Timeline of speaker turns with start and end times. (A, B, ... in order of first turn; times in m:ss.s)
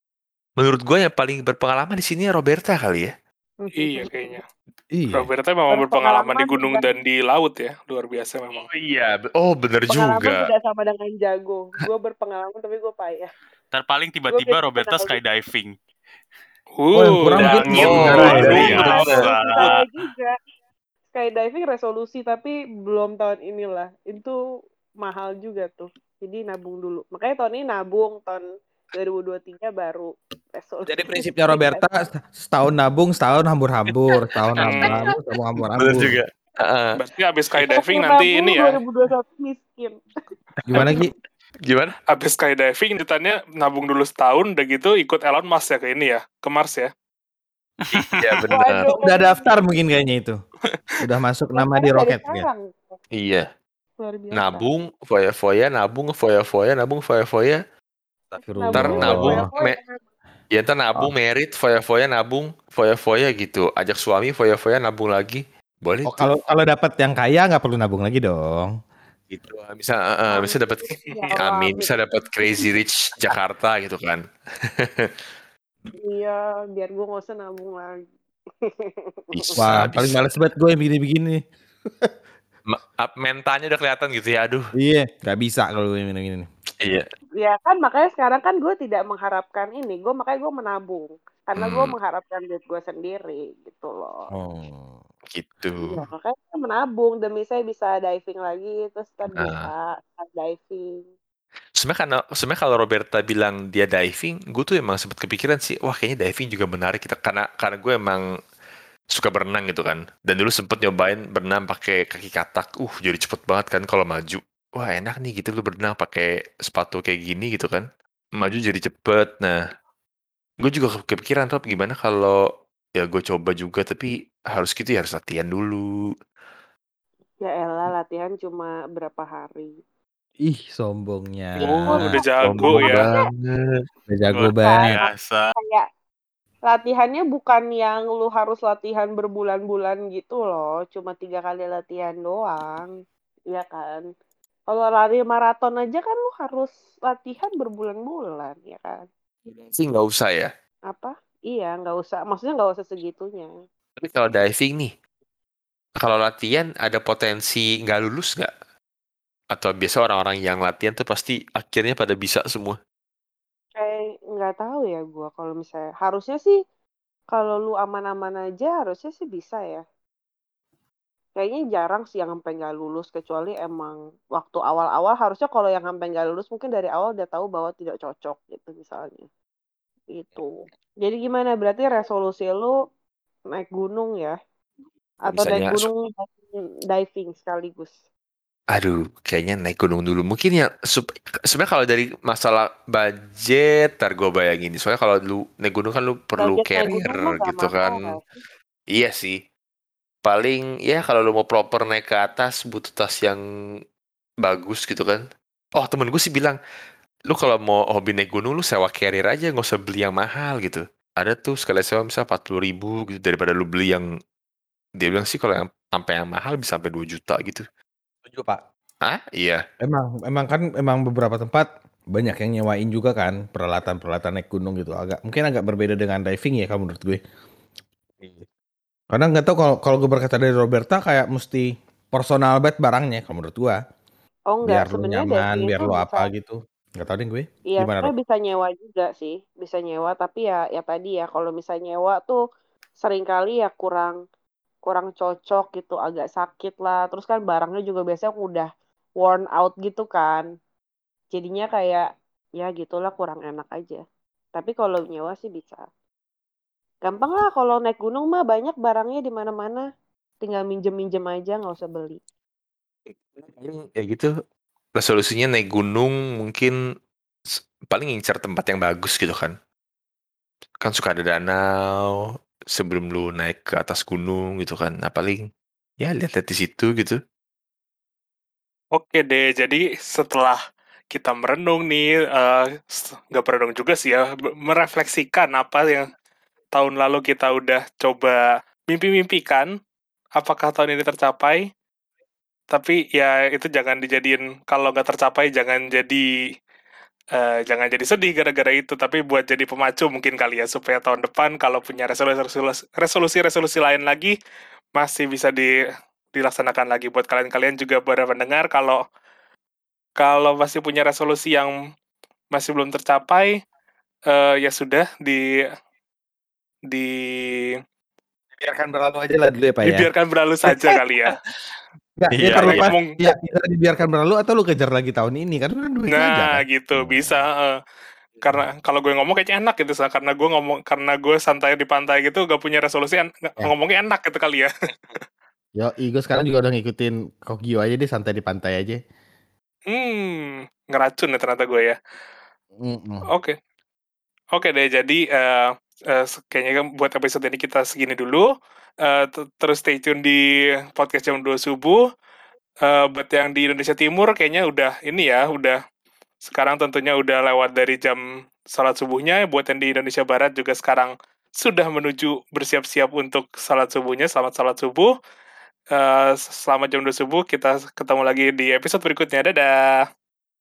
0:00.6-0:03.1 A
0:03.6-0:04.4 B
0:03.8-0:04.4 C
0:05.0-0:05.2 D
0:05.1-0:08.6 C
0:05.7-0:06.9 B
0:08.5-0:10.4 A
0:09.9-0:13.3 B
0:13.7-0:15.8 E
0:14.3-0:15.2 B
0:16.8-0:18.9 C
0:17.0-0:18.6 D
0:17.4-0:19.2 A
0:17.8-0:19.9 E
0:18.2-0:20.4 B
0:21.1-0:24.4 B
0:25.0-0:31.8 B
0:30.9-0:36.2 D
0:35.8-0:36.9 A
0:37.0-0:38.8 C
0:37.6-0:40.0 B
0:40.6-0:41.1 D
0:40.7-0:41.0 A
0:41.6-0:41.9 A
0:42.1-0:46.9 C
0:47.9-0:48.5 E
0:47.9-0:48.9 A
0:48.5-0:49.5 B
0:48.9-0:50.4 D
0:51.0-0:52.5 D
0:51.5-0:53.0 B
0:53.2-0:53.5 A
0:54.0-0:54.7 B
0:54.3-0:57.6 A
0:58.4-0:59.5 D
0:58.5-1:00.0 B
0:58.8-0:59.8 A
1:00.5-1:06.4 A
1:06.1-1:08.7 D
1:09.3-1:15.2 A
1:10.3-1:12.7 B
1:16.0-1:18.0 B
1:18.6-1:19.6 B
1:19.3-1:20.2 A
1:19.6-1:21.4 D
1:22.7-1:24.7 A
1:24.8-1:26.5 D
1:27.4-1:34.3 B
1:31.6-1:31.9 A
1:34.3-1:35.0 D
1:35.3-1:36.0 A
1:35.8-1:41.0 B
1:39.3-1:39.7 A
1:41.8-1:48.2 A
1:49.1-1:57.8 A
1:58.4-1:59.6 A
2:00.6-2:02.4 A
2:03.0-2:05.8 A
2:07.4-2:09.8 B
2:10.4-2:12.1 D
2:11.7-2:13.8 A
2:11.8-2:13.1 C
2:12.6-2:13.0 D
2:14.1-2:15.0 D
2:14.3-2:15.5 E
2:14.6-2:15.8 B
2:16.7-2:22.9 B
2:23.5-2:24.0 B
2:24.7-2:29.0 B
2:29.5-2:30.5 A
2:30.9-2:33.5 B
2:34.0-2:34.9 A
2:36.0-2:38.5 A
2:39.5-2:42.8 A
2:43.8-2:46.6 B
2:47.3-2:49.8 B
2:51.4-2:59.3 B
3:00.1-3:02.7 B
3:03.5-3:04.3 B
3:05.2-3:07.9 B
3:05.3-3:05.9 A
3:08.7-3:18.0 A
3:16.4-3:18.2 B
3:18.9-3:19.4 A
3:20.2-3:23.4 A
3:24.4-3:25.2 A
3:25.8-3:26.6 A
3:27.3-3:34.1 A
3:35.0-3:37.6 A
3:38.2-3:38.6 D
3:39.0-3:39.6 A
3:39.8-3:47.2 D
3:49.1-3:53.8 D
3:54.5-3:56.3 B
3:54.6-3:58.1 D
3:57.7-4:02.4 B
4:03.0-4:04.2 B
4:04.8-4:08.7 B
4:09.2-4:10.4 B
4:11.3-4:12.0 B
4:12.6-4:14.0 B
4:14.5-4:15.8 B
4:17.0-4:19.8 B
4:20.4-4:22.2 B
4:23.1-4:24.3 A
4:25.0-4:26.7 A
4:27.5-4:29.5 A
4:30.8-4:35.5 A
4:36.0-4:37.2 A
4:39.0-4:40.6 C
4:41.1-4:46.1 C
4:46.7-4:49.7 C
4:50.4-4:51.6 C
4:52.7-4:56.3 C
4:57.3-5:04.3 C
5:05.0-5:05.7 C
5:06.3-5:09.0 C
5:10.2-5:11.7 C
5:12.5-5:13.5 C
5:14.3-5:15.4 C
5:16.9-5:17.7 C
5:18.6-5:20.1 D
5:19.8-5:21.4 C
5:22.2-5:27.4 D
5:22.4-5:22.9 A
5:22.4-5:23.2 C
5:26.1-5:27.7 C
5:28.4-5:35.2 C
5:35.8-5:39.0 D
5:39.9-5:42.0 C
5:42.8-5:43.2 D
5:43.3-5:43.6 C
5:44.5-5:48.5 C
5:49.0-5:50.4 C
5:51.0-5:52.0 C
5:52.8-5:55.8 C
5:56.4-5:58.2 C
5:58.7-6:05.1 C
6:05.9-6:09.8 C